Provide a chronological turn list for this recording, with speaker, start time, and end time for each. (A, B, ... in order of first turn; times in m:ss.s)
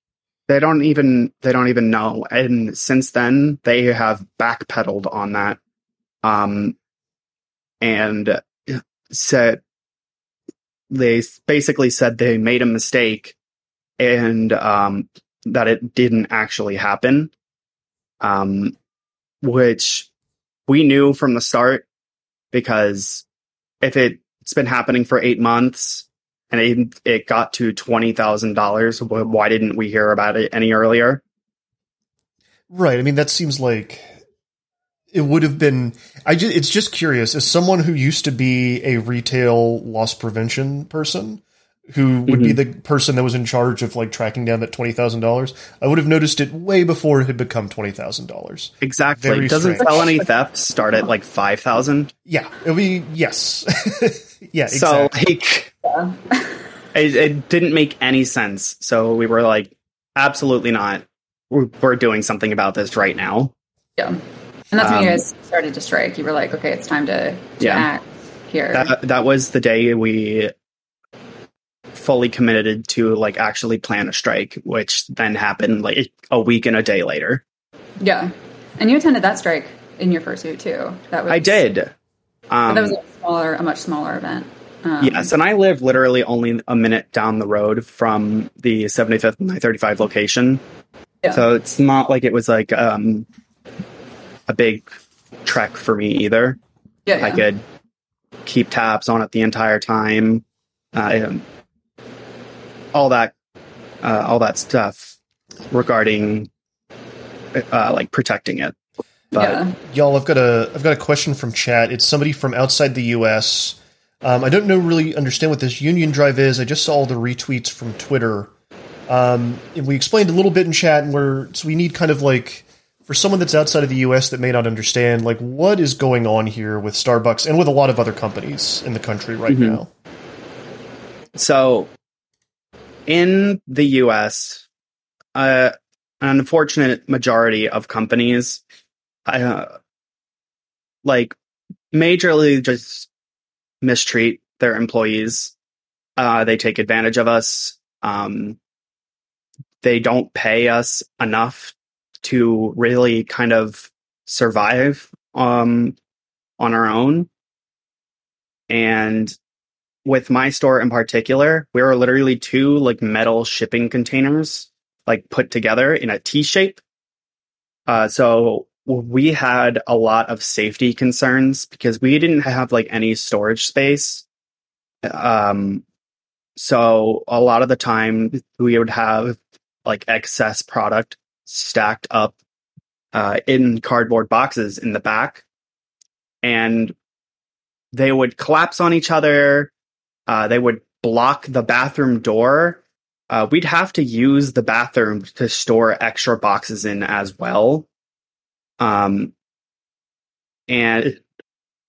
0:00.5-0:05.6 A
0:06.2-0:06.8 A
0:07.8-0:09.6 A
0:10.9-0:13.4 A
0:14.0-0:17.3 A
0:18.2-0:18.8 A
0:19.4-0:20.1 A
0:20.7-0:21.8 A
0:22.5-0:23.2 A
0:23.8-0:31.2 A
0:32.7-0:34.2 B
0:35.1-0:50.2 B
0:42.3-0:42.6 A
0:48.8-0:52.1 A
0:52.3-0:55.2 B
0:54.7-0:55.7 A
0:55.8-0:56.6 C
0:56.9-1:03.5 A
1:04.7-1:08.9 C
1:04.8-1:05.2 A
1:07.6-1:07.9 A
1:08.7-1:10.5 A
1:11.9-1:17.4 A
1:18.0-1:21.6 C
1:21.3-1:21.9 A
1:22.5-1:23.0 A
1:22.7-1:25.3 C
1:25.0-1:30.6 A
1:31.3-1:33.2 A
1:34.5-1:34.9 A
1:35.4-1:36.6 A
1:37.1-1:37.4 C
1:37.2-1:37.6 A
1:38.4-1:41.4 A
1:42.9-1:43.3 A
1:44.0-1:45.2 A
1:45.7-1:46.5 A
1:47.5-1:48.7 A
1:49.3-1:49.6 A
1:49.4-1:49.7 C
1:49.4-1:58.5 B
1:59.1-2:09.9 B
2:09.5-2:09.8 A
2:11.4-2:11.9 A
2:13.1-2:14.6 A
2:15.4-2:18.6 A
2:19.2-2:19.7 A
2:21.0-2:21.4 A
2:21.9-2:23.1 A
2:23.8-2:25.5 A
2:26.2-2:28.6 A
2:29.8-2:36.0 A
2:36.6-2:37.3 A
2:38.7-2:39.4 A
2:40.0-2:46.8 A
2:47.9-2:54.2 A
2:55.0-2:55.8 A
2:56.6-3:02.4 A
3:03.1-3:05.4 A
3:06.4-3:07.0 A
3:07.9-3:09.7 A
3:10.3-3:17.9 A
3:18.8-3:19.3 A
3:20.7-3:21.2 A